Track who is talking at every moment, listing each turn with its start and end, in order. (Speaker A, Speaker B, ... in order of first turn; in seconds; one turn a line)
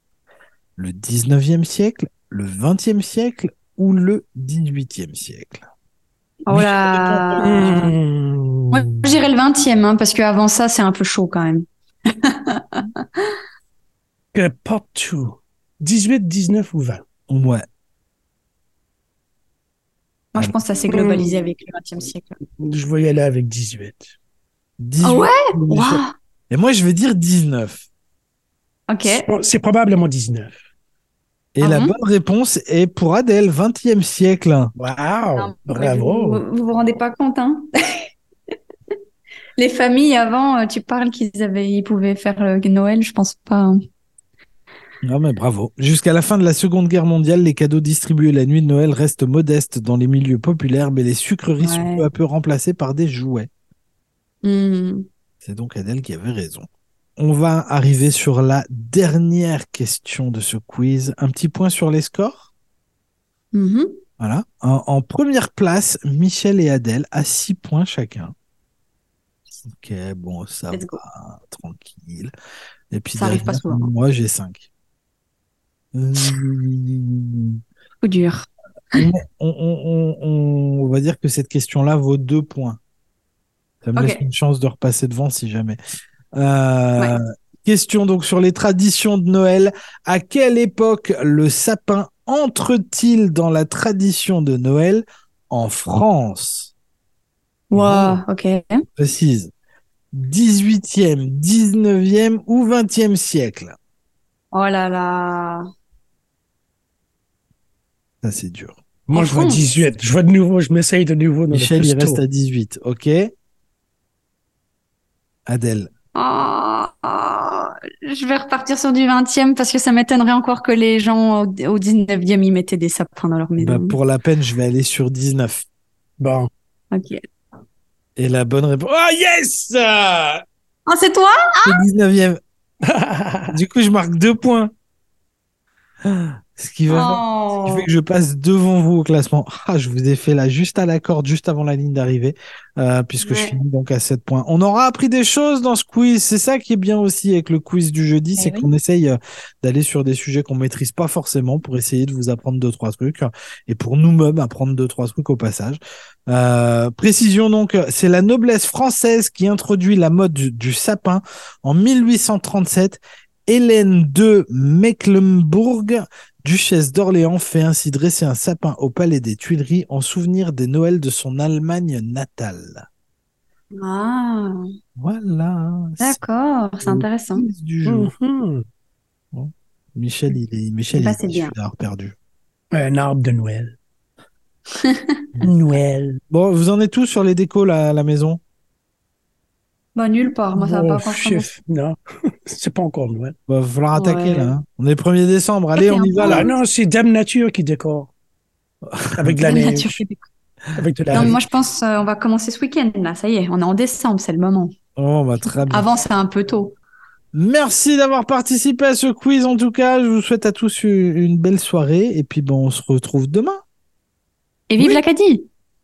Speaker A: 0.8-5.7
Speaker B: 6.5-7.9
Speaker A: 6.5-7.8
Speaker C: 7.3-9.1
Speaker B: 8.7-13.3
Speaker C: 14.3-17.0
Speaker A: 17.3-17.6
Speaker B: 20.4-22.4
Speaker C: 20.9-21.3
Speaker C: 22.6-24.1
Speaker A: 24.8-27.9
Speaker B: 25.0-26.1
Speaker B: 28.9-29.3
Speaker C: 29.0-30.5
Speaker A: 31.6-34.7
Speaker B: 31.6-31.9
Speaker C: 34.8-36.4
Speaker B: 35.4-38.1
Speaker B: 39.6-43.8
Speaker A: 45.0-53.5
Speaker B: 51.6-52.0
Speaker B: 54.4-55.1
Speaker A: 55.4-56.7
Speaker A: 57.2-62.5
Speaker B: 63.5-64.0
Speaker A: 64.2-68.3
Speaker A: 69.7-72.3
Speaker B: 70.7-71.0
Speaker A: 72.9-74.7
Speaker B: 73.2-73.9
Speaker A: 75.9-77.6
Speaker B: 78.0-79.0
Speaker A: 79.0-82.8
Speaker A: 83.8-85.8
Speaker B: 84.0-84.2
Speaker A: 86.3-96.7
Speaker B: 97.7-98.8
Speaker A: 97.7-98.2
Speaker A: 99.0-99.5
Speaker A: 100.1-103.8
Speaker B: 104.5-105.6
Speaker A: 108.2-108.8
Speaker C: 109.1-112.2
Speaker B: 109.2-109.6
Speaker A: 111.5-113.3
Speaker A: 115.5-115.9
Speaker B: 116.2-124.0
Speaker A: 123.6-125.7
Speaker C: 126.2-126.5
Speaker B: 126.9-127.2
Speaker A: 128.2-130.4
Speaker B: 130.9-131.8
Speaker A: 131.6-132.4
Speaker C: 132.8-133.5
Speaker A: 133.5-134.7
Speaker A: 136.1-172.8
Speaker B: 136.9-137.9
Speaker B: 143.2-143.6
Speaker B: 148.4-148.7
Speaker B: 173.8-174.6
Speaker A: 175.0-176.2
Speaker B: 176.0-177.4
Speaker A: 176.8-178.1
Speaker C: 177.9-178.6
Speaker A: 179.3-182.2
Speaker B: 180.9-181.5
Speaker C: 182.7-183.7
Speaker B: 184.8-185.2
Speaker C: 185.4-186.2
Speaker A: 186.3-188.4
Speaker B: 189.9-191.5
Speaker C: 190.6-193.3
Speaker A: 193.5-196.4
Speaker B: 193.9-194.6
Speaker B: 195.8-196.5
Speaker C: 196.3-198.1
Speaker A: 198.9-199.4
Speaker C: 199.2-200.0
Speaker B: 199.5-200.2
Speaker C: 200.8-201.4
Speaker A: 201.1-201.4
Speaker B: 201.2-204.7
Speaker A: 205.0-205.9
Speaker B: 205.7-206.8
Speaker A: 207.3-213.6
Speaker B: 214.7-215.5